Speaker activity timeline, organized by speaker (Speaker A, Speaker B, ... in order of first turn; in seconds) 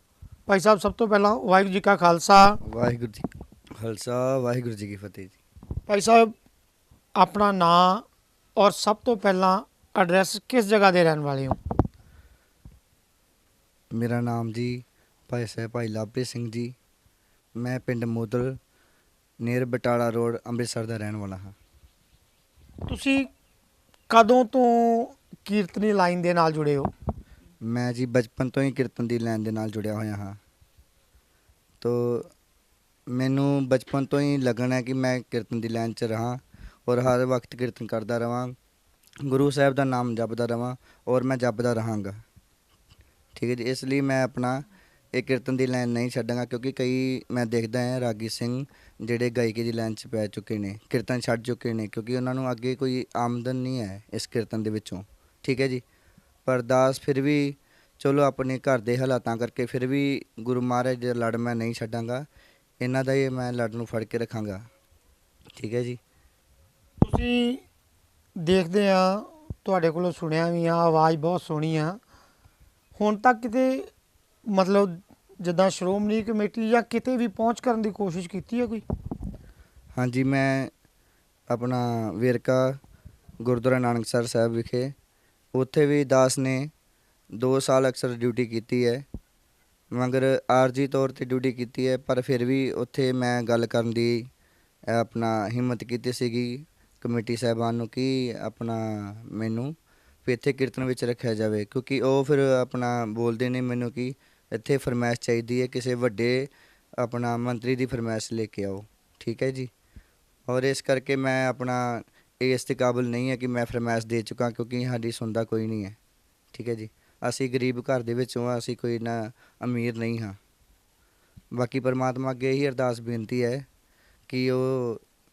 Speaker A: 0.5-2.6, 5.9-6.3, 7.2-8.1, 8.6-11.6, 22.9-23.3, 24.1-26.9, 67.0-67.6, 68.4-72.0, 73.0-73.9, 74.5-78.8
Speaker B: 2.6-3.3, 3.8-5.4, 13.9-16.8, 17.6-18.6, 19.4-21.5, 27.7-30.4, 31.8-32.3, 33.1-38.5, 39.2-42.2, 43.4-55.8, 56.5-62.2, 62.8-64.6, 65.6-66.0, 80.0-80.7, 81.5-82.8, 83.5-84.9, 85.5-86.7, 87.4-89.0, 90.0-94.3, 94.9-109.7, 110.5-116.0, 116.5-120.4, 121.6-123.7, 124.3-125.0